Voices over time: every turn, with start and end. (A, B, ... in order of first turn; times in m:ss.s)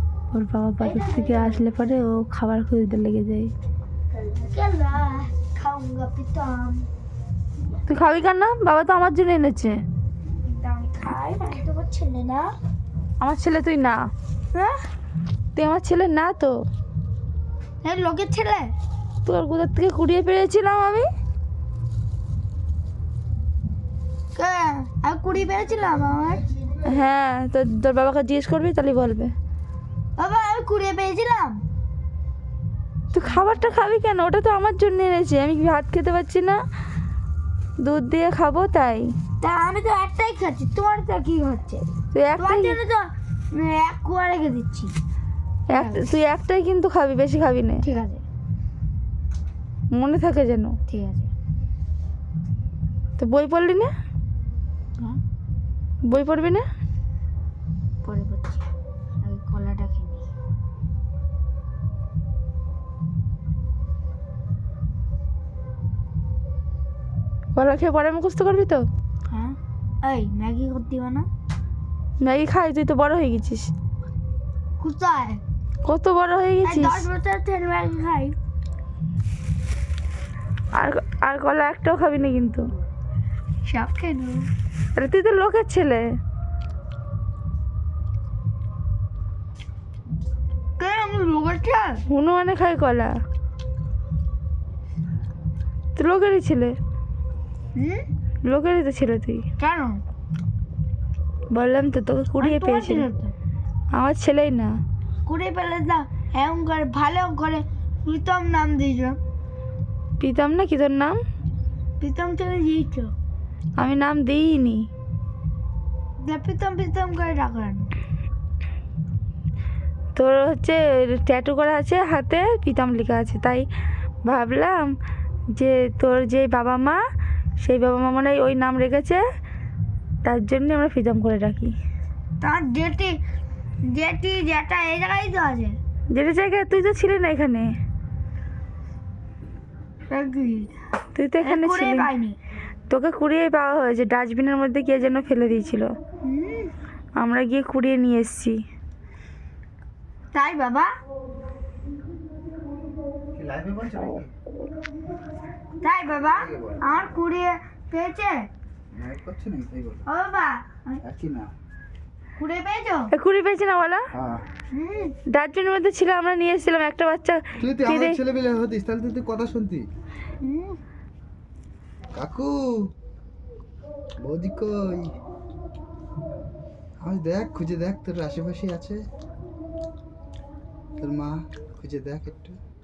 0:00.3-0:03.5 A
0:00.8-0:02.1 B
0:04.1-0:06.9 B
0:07.8-0:09.8 A
0:10.4-0:12.5 B
0:13.2-0:14.1 A
0:15.5-0:16.5 A
0:17.8-0:18.7 B
0:19.2-0:21.1 A
0:24.3-0:26.4 B
0:26.8-0:29.3 A
0:30.2-0:31.6 B
0:33.1-0:36.6 A
0:37.8-0:39.1 A
0:39.4-0:44.9 B
0:42.1-0:42.8 A
0:45.7-0:47.8 A
0:45.7-0:46.1 B
0:47.8-0:48.2 B
0:49.9-0:50.8 A
0:50.9-0:51.3 B
0:53.2-0:53.9 A
0:56.1-0:56.6 A
0:58.0-0:58.6 B
0:59.2-1:00.3 B
1:07.5-1:08.8 A
1:09.3-1:11.3 B
1:12.2-1:13.7 A
1:14.8-1:15.4 B
1:15.8-1:17.1 A
1:16.6-1:18.3 B
1:20.7-1:22.7 A
1:23.6-1:24.5 B
1:24.9-1:26.0 A
1:30.8-1:32.0 B
1:32.1-1:33.1 A
1:36.0-1:36.8 A
1:37.7-1:38.0 B
1:38.4-1:39.5 A
1:39.6-1:40.0 B
1:41.5-1:43.1 A
1:42.4-1:43.3 B
1:43.9-1:44.8 A
1:45.2-1:49.2 B
1:50.2-1:51.2 A
1:52.0-1:53.1 B
1:53.8-1:54.9 A
1:56.2-1:57.9 B
2:00.1-2:03.7 A
2:04.2-2:04.8 A
2:05.5-2:07.0 A
2:07.6-2:09.2 A
2:10.2-2:11.7 A
2:12.4-2:13.2 B
2:13.8-2:15.8 B
2:16.1-2:17.7 A
2:20.1-2:20.7 B
2:21.1-2:22.1 A
2:21.4-2:22.4 B
2:22.9-2:25.9 A
2:26.2-2:26.7 B
2:27.2-2:28.6 A
2:30.3-2:30.9 B
2:33.3-2:34.3 C
2:35.8-2:38.5 B
2:36.3-2:36.8 C
2:38.9-2:40.0 C
2:40.0-2:41.0 B
2:41.0-2:41.5 C
2:42.4-2:43.1 B
2:43.1-2:44.1 A
2:44.1-2:44.4 C
2:44.7-2:45.2 B
2:45.3-2:48.2 A
2:47.6-2:49.8 C
2:50.4-2:50.8 B
2:52.1-2:52.9 C
2:54.2-2:55.1 C
2:57.0-2:59.0 C
3:01.0-3:02.6 C